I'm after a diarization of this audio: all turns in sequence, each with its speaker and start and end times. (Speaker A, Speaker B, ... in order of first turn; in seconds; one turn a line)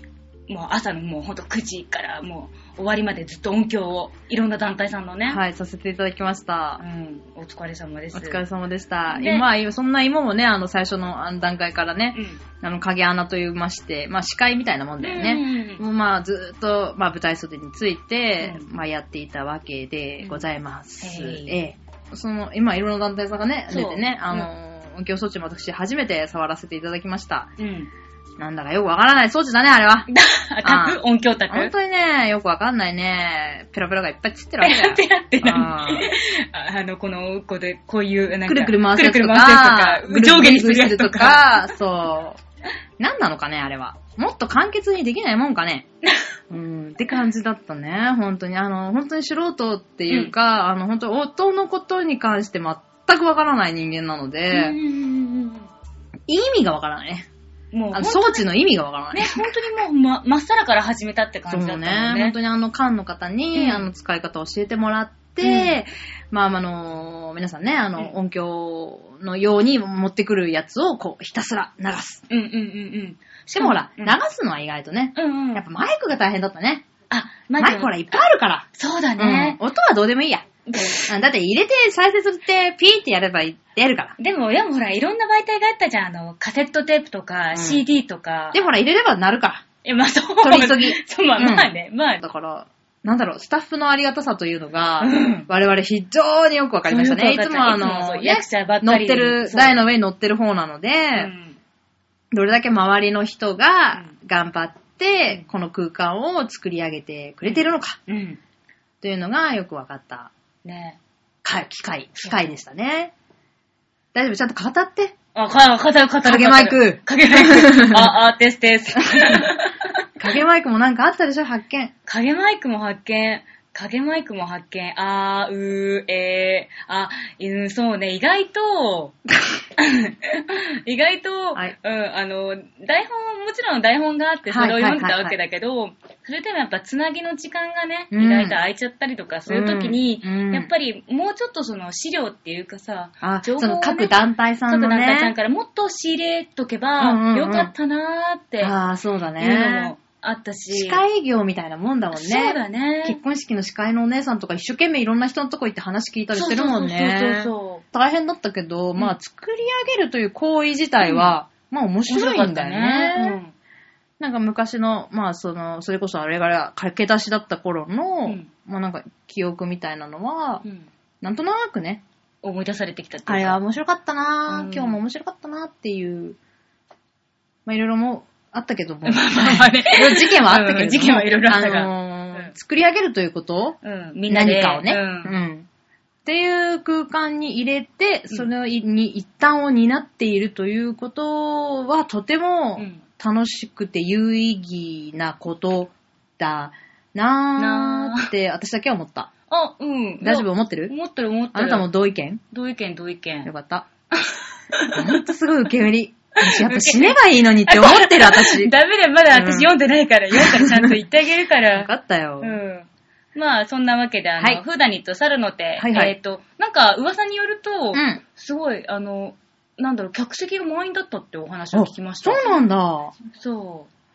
Speaker A: 0.5-5.4
Speaker B: 5.3-6.8
Speaker A: 6.8-8.4
Speaker B: 8.1-27.5
Speaker A: 9.1-9.4
Speaker A: 12.1-12.4
Speaker A: 15.0-15.8
Speaker A: 18.4-18.7
Speaker A: 21.0-21.6
Speaker A: 23.7-24.5
Speaker A: 27.6-27.9
Speaker B: 28.4-30.1
Speaker A: 30.1-31.7
Speaker B: 30.6-36.1
Speaker A: 34.6-41.6
Speaker B: 38.5-42.4
Speaker B: 43.0-45.9
Speaker B: 46.5-54.8
Speaker A: 54.5-55.7
Speaker B: 56.3-57.3
Speaker A: 57.7-58.4
Speaker B: 57.9-59.5
Speaker A: 59.1-62.4
Speaker B: 61.5-72.2
Speaker A: 63.5-63.9
Speaker A: 65.4-65.8
Speaker A: 72.3-74.2
Speaker B: 73.5-76.8
Speaker A: 75.2-75.6
Speaker A: 77.1-78.0
Speaker B: 77.6-78.7
Speaker A: 78.7-79.6
Speaker B: 79.2-80.5
Speaker A: 80.7-81.1
Speaker B: 81.0-84.1
Speaker A: 84.2-88.6
Speaker B: 87.5-87.8
Speaker B: 88.5-89.7
Speaker A: 89.8-92.2
Speaker B: 90.4-91.7
Speaker B: 92.2-101.3
Speaker A: 95.0-95.5
Speaker A: 96.9-99.8
Speaker A: 101.1-101.6
Speaker B: 102.3-108.0
Speaker A: 107.4-108.4
Speaker B: 109.0-110.3
Speaker A: 110.6-111.0
Speaker B: 111.4-113.1
Speaker B: 114.1-115.1
Speaker A: 115.3-120.0
Speaker B: 116.2-118.1
Speaker B: 119.0-119.5
Speaker B: 120.2-121.9
Speaker A: 122.0-129.2
Speaker A: 129.8-144.2
Speaker B: 134.5-135.3
Speaker B: 138.1-138.6
Speaker B: 139.5-140.7
Speaker B: 143.2-145.3
Speaker A: 144.7-148.7
Speaker B: 147.0-147.7
Speaker B: 148.6-149.9
Speaker A: 149.4-151.0
Speaker B: 150.7-163.4
Speaker A: 152.1-153.2
Speaker A: 156.3-157.8
Speaker A: 161.0-161.3
Speaker A: 162.1-163.5
Speaker B: 164.2-170.6
Speaker A: 170.6-170.9
Speaker B: 171.2-172.0
Speaker A: 172.4-173.6
Speaker B: 173.3-176.4
Speaker A: 174.5-175.0
Speaker B: 177.7-183.8
Speaker A: 179.0-182.5
Speaker A: 183.8-185.3
Speaker B: 184.3-185.7
Speaker B: 186.2-199.3
Speaker A: 192.8-193.0
Speaker A: 197.6-198.3
Speaker A: 199.5-201.9
Speaker B: 200.2-200.9
Speaker B: 201.5-202.4
Speaker A: 202.5-203.5
Speaker B: 203.4-203.9
Speaker A: 204.1-205.2
Speaker B: 204.9-208.7
Speaker A: 206.4-211.9
Speaker B: 209.3-209.7
Speaker B: 210.3-211.0
Speaker B: 211.7-212.6
Speaker A: 212.4-222.6
Speaker B: 215.8-216.1
Speaker B: 217.9-218.2
Speaker B: 221.7-223.1
Speaker A: 223.2-223.9